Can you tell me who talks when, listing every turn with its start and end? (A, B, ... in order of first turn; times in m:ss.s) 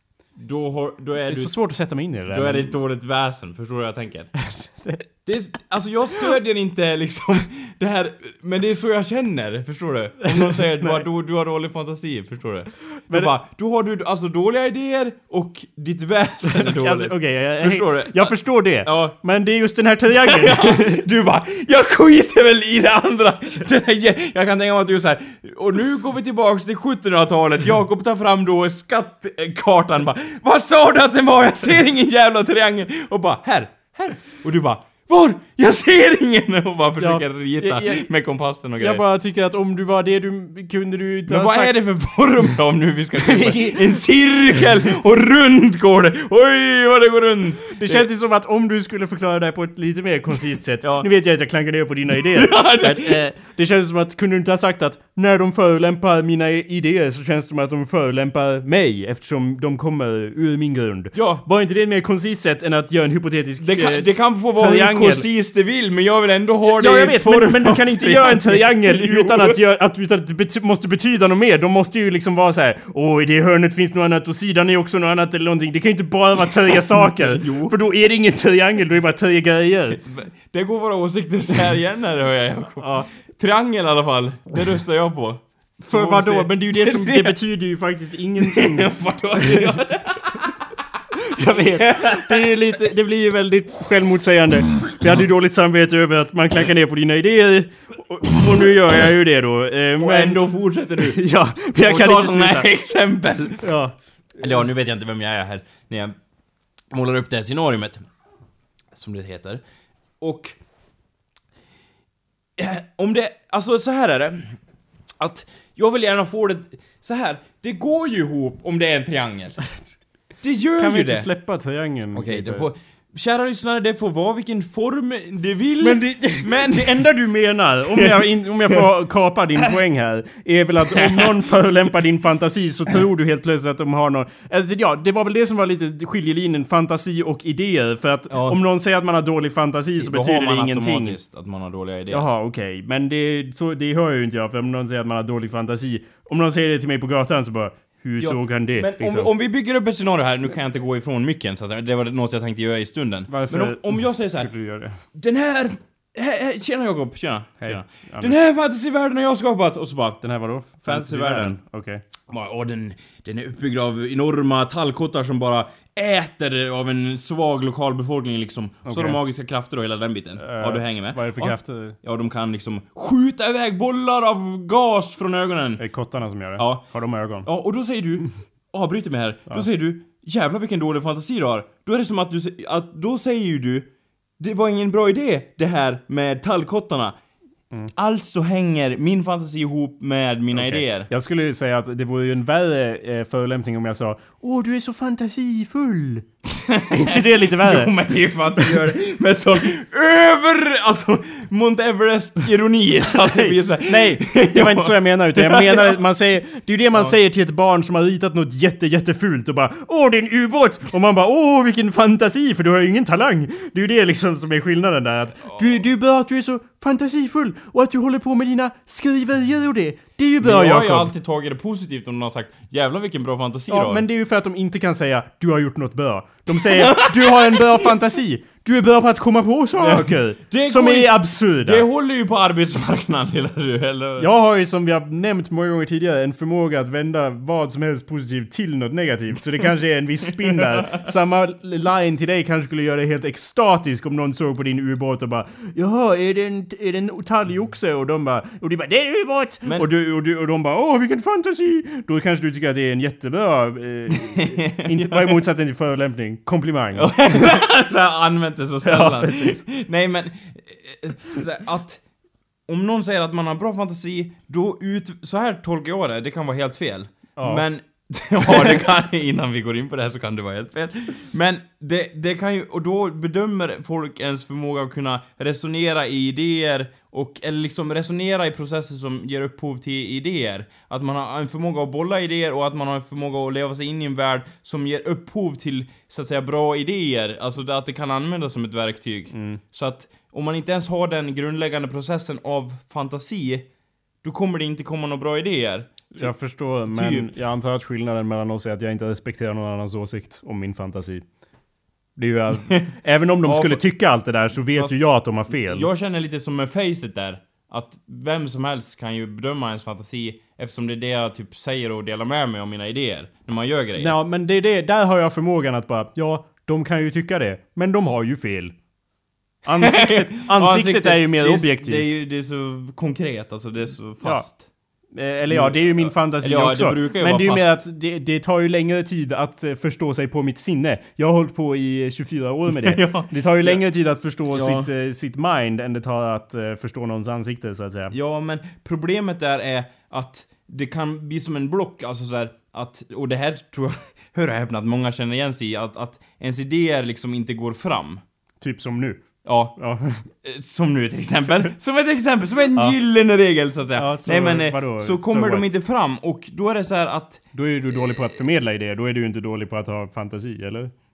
0:00.4-0:01.5 A
0:01.3-0:02.8 B
0:02.3-0:04.3 A
0:04.4-0:05.0 B
0:05.2-0:19.2 A
0:10.2-0:11.0 B
0:13.0-0:13.3 B
0:16.4-0:21.0 B
0:20.1-0:39.0 A
0:37.0-0:38.1 B
0:38.8-0:41.8 B
0:41.3-0:48.1 A
0:43.2-0:44.0 B
0:47.7-1:05.3 B
0:52.2-0:53.2 A
1:01.1-1:01.4 A
1:03.6-1:09.6 A
1:06.7-1:20.0 B
1:16.9-1:17.8 A
1:20.0-1:27.4 A
1:22.8-1:23.1 B
1:25.8-1:29.7 B
1:28.4-1:30.5 A
1:31.2-1:42.7 B
1:31.7-1:32.7 A
1:40.0-1:41.2 A
1:41.8-1:43.7 A
1:43.6-1:44.0 B
1:44.4-1:46.2 A
1:46.9-1:48.1 A
1:48.9-1:49.6 A
1:50.2-1:50.6 A
1:52.6-1:54.6 A
1:55.2-1:59.6 A
2:00.4-2:01.3 A
2:00.8-2:02.7 B
2:02.1-2:07.2 A
2:05.8-2:21.2 B
2:07.9-2:08.8 A
2:10.9-2:11.6 A
2:18.3-2:18.6 A
2:20.0-2:22.2 A
2:22.1-2:29.3 B
2:28.2-2:34.5 A
2:33.3-2:35.0 B
2:35.1-2:40.2 A
2:37.6-2:38.4 B
2:40.2-2:42.0 B
2:40.8-2:41.6 A
2:42.3-2:55.8 A
2:48.9-2:49.2 B
2:50.4-2:52.0 B
2:55.8-2:57.5 B
2:56.6-2:56.8 A
2:57.4-3:03.9 A
3:04.4-3:07.2 A
3:07.9-3:11.1 A
3:10.5-3:16.3 B
3:16.5-3:26.0 A
3:16.9-3:17.9 B
3:23.1-3:41.1 B
3:35.5-3:35.8 A
3:40.4-3:44.0 A
3:43.7-3:51.8 B
3:46.5-3:47.9 A
3:49.8-3:54.3 A
3:54.2-4:17.6 B
4:00.4-4:01.0 A
4:14.1-4:15.4 A
4:17.0-4:22.0 A
4:18.8-4:19.6 B
4:22.7-4:53.7 A
4:27.4-4:27.6 B
4:49.3-4:49.6 B
4:54.2-4:56.3 A
4:56.1-5:01.2 B
4:56.9-4:57.3 A
5:02.2-5:05.9 B
5:03.4-5:03.8 A
5:04.7-5:14.2 A
5:14.0-5:18.8 B
5:19.6-5:22.2 B
5:19.8-5:24.6 A
5:24.2-5:24.5 B
5:25.1-5:38.2 B
5:25.5-5:27.7 A
5:32.7-5:33.8 A
5:34.5-5:34.9 A
5:38.1-5:48.2 A
5:48.6-5:49.2 B
5:49.4-5:49.8 A
5:49.8-5:50.3 B
5:50.4-5:58.2 A
5:54.0-5:55.7 B
5:57.5-6:00.9 B